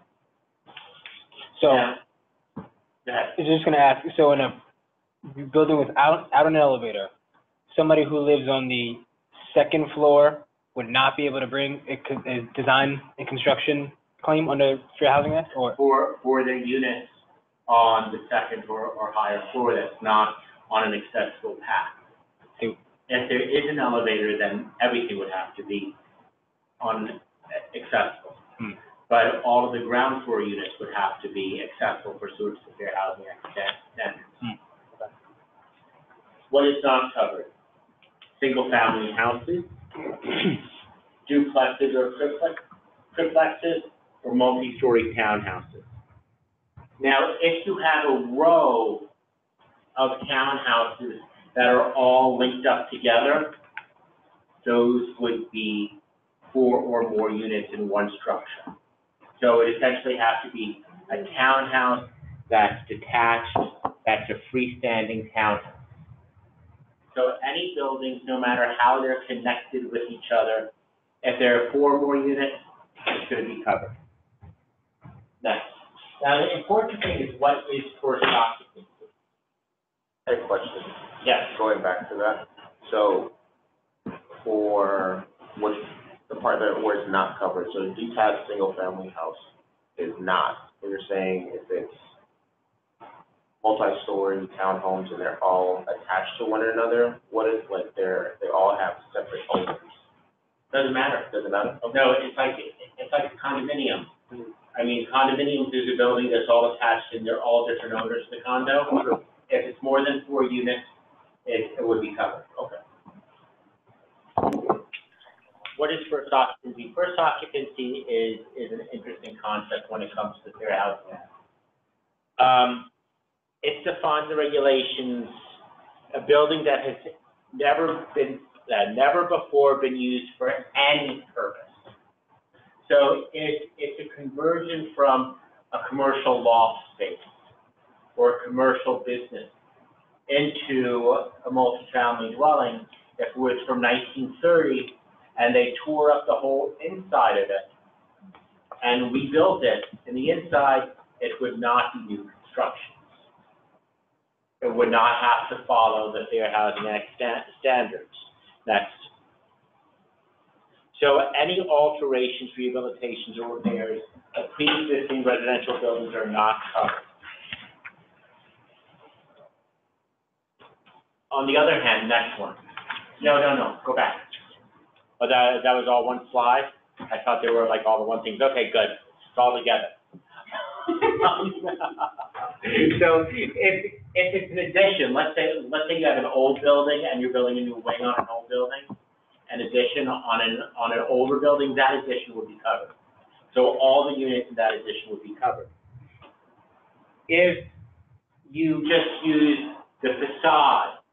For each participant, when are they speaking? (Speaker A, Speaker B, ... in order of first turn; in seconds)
Speaker A: 1.5-1.9, 3.4-4.6, 5.3-7.1, 7.7-15.8
Speaker B: 1.6-2.0, 3.0-3.3, 15.7-17.1, 17.7-21.9, 23.1-25.9, 26.8-28.4, 29.1-34.5, 36.5-37.5, 38.4-39.8, 41.2-45.9, 47.0-49.1, 50.0-53.6, 54.6-56.0, 56.5-58.7, 59.4-65.8, 67.1-70.7, 71.2-74.0, 75.4-79.1, 100.7-101.3, 101.8-104.1, 104.7-110.9, 111.5-112.5, 115.8-121.3, 122.4-122.9, 123.6-125.4, 126.1-131.8, 132.8-137.3, 138.1-139.5, 140.3-147.7, 148.8-153.1, 154.6-159.1, 160.9-167.1, 171.3-172.6, 173.2-174.4, 175.2-179.9, 180.8-188.9, 189.5-192.9, 193.5-195.7, 197.3-197.7, 198.5-201.0
Speaker C: 80.2-83.3, 84.3-92.1, 93.6-100.0, 101.3-101.9